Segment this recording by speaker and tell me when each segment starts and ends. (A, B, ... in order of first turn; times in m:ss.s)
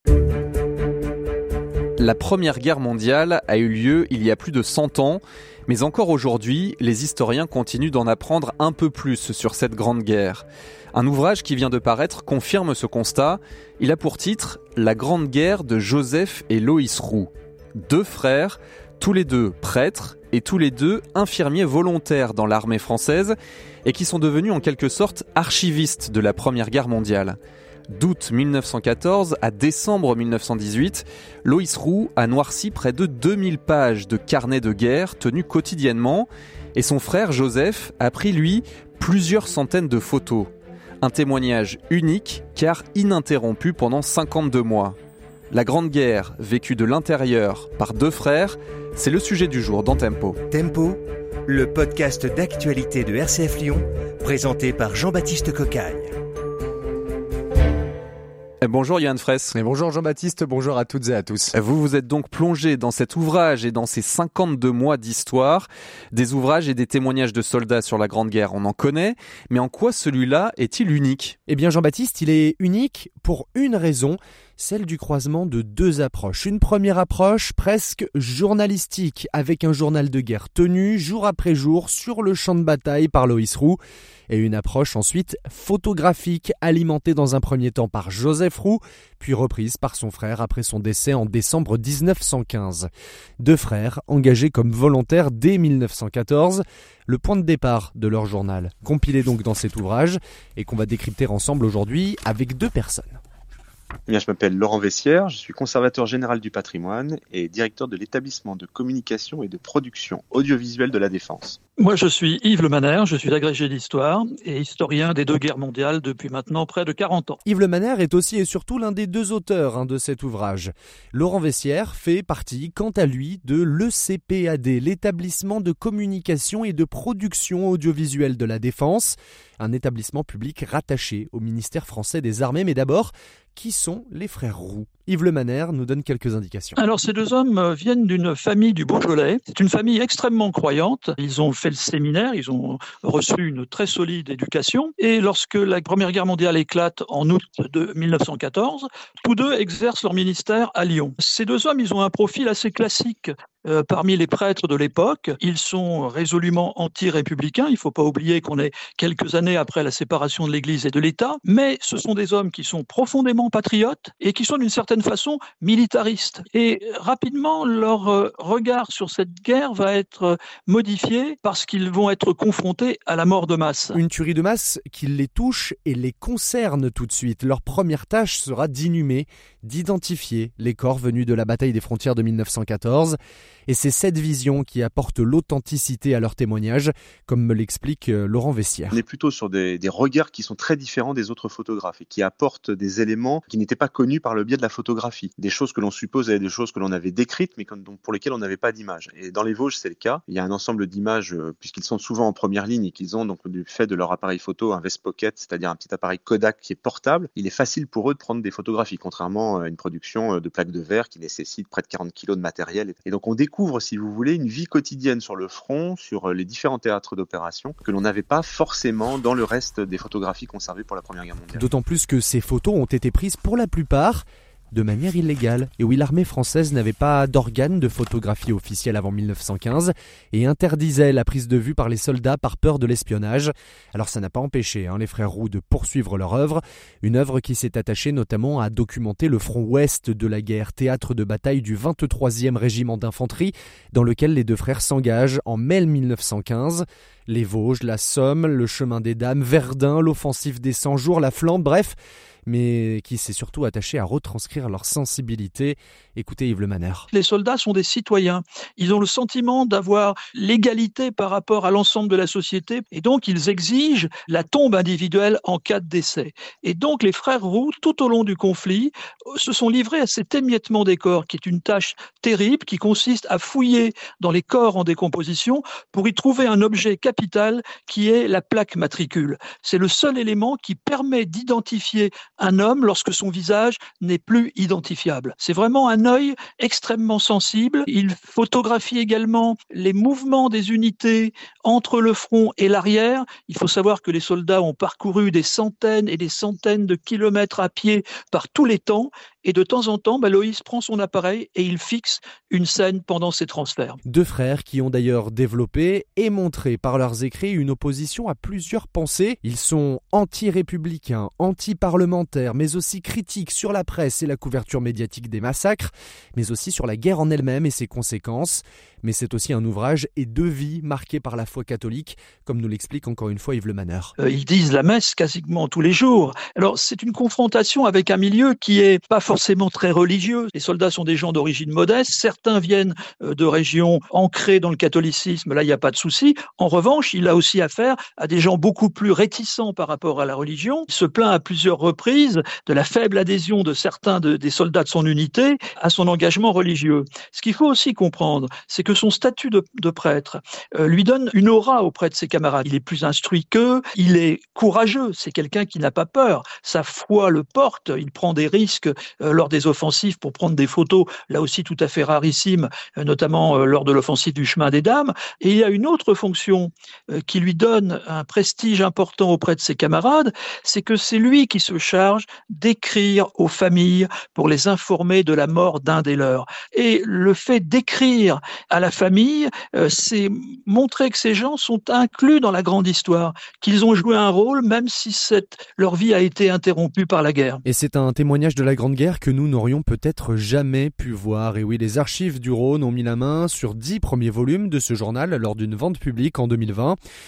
0:02.0-0:27.4 A
0:27.9-0:40.5 A
0:41.0-0:45.0 A
0:45.5-0:50.4 A
0:50.5-0:56.1 B
0:58.6-0:59.6 A
0:59.6-1:01.4 C
1:01.5-1:11.4 A
1:11.5-1:32.9 C
1:33.4-1:43.2 C
1:44.1-1:51.6 D
1:51.8-1:57.4 E
1:57.4-2:16.8 C
2:16.8-2:54.0 E
2:53.9-3:09.0 C
3:08.9-3:41.7 D
3:41.5-4:11.9 C
4:12.4-4:17.1 C
4:17.1-5:04.0 E
5:04.1-5:24.1 C
5:24.2-6:27.6 E
6:27.6-6:37.0 C